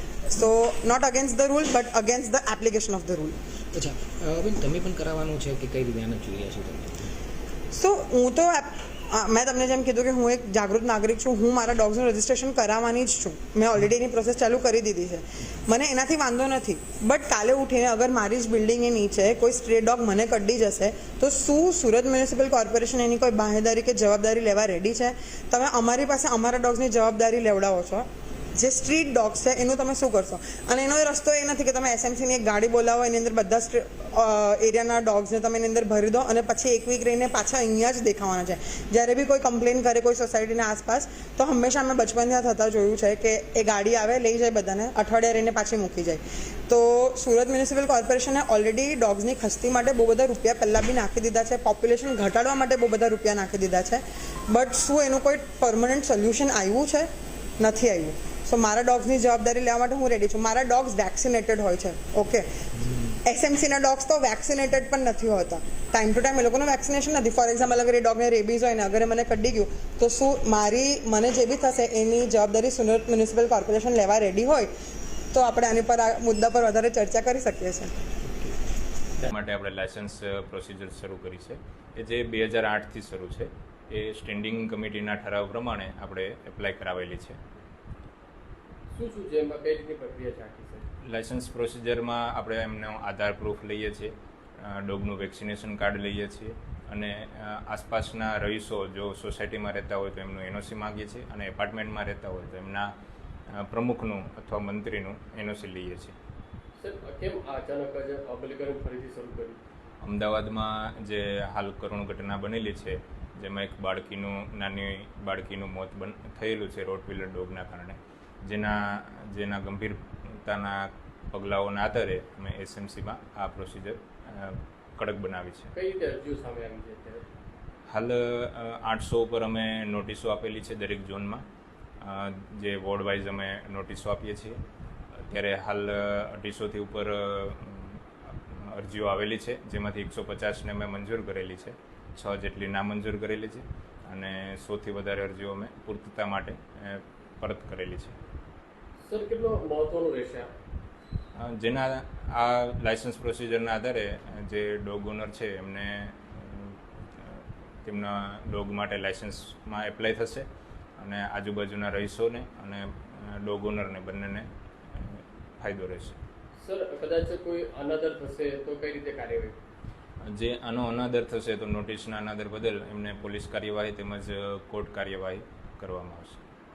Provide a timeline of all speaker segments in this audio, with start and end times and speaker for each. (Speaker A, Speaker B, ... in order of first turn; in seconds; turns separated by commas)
Speaker A: 0.3-3.4, Speaker B: 3.7-7.1, Speaker A: 7.7-57.1, Speaker A: 57.6-62.5, Speaker A: 63.2-74.7, Speaker A: 75.3-78.0, Speaker C: 79.3-87.4, Speaker D: 88.9-90.8, Speaker C: 91.1-94.1, Speaker C: 94.6-102.9, Speaker C: 103.6-106.1, Speaker D: 106.8-109.6, Speaker C: 110.0-125.7, Speaker D: 125.7-127.2, Speaker C: 127.9-131.4, Speaker C: 132.0-134.6, Speaker C: 135.3-148.1, Speaker D: 149.1-150.5, Speaker C: 151.4-160.4, Speaker C: 161.0-166.2, Speaker D: 166.6-169.6, Speaker C: 170.3-176.4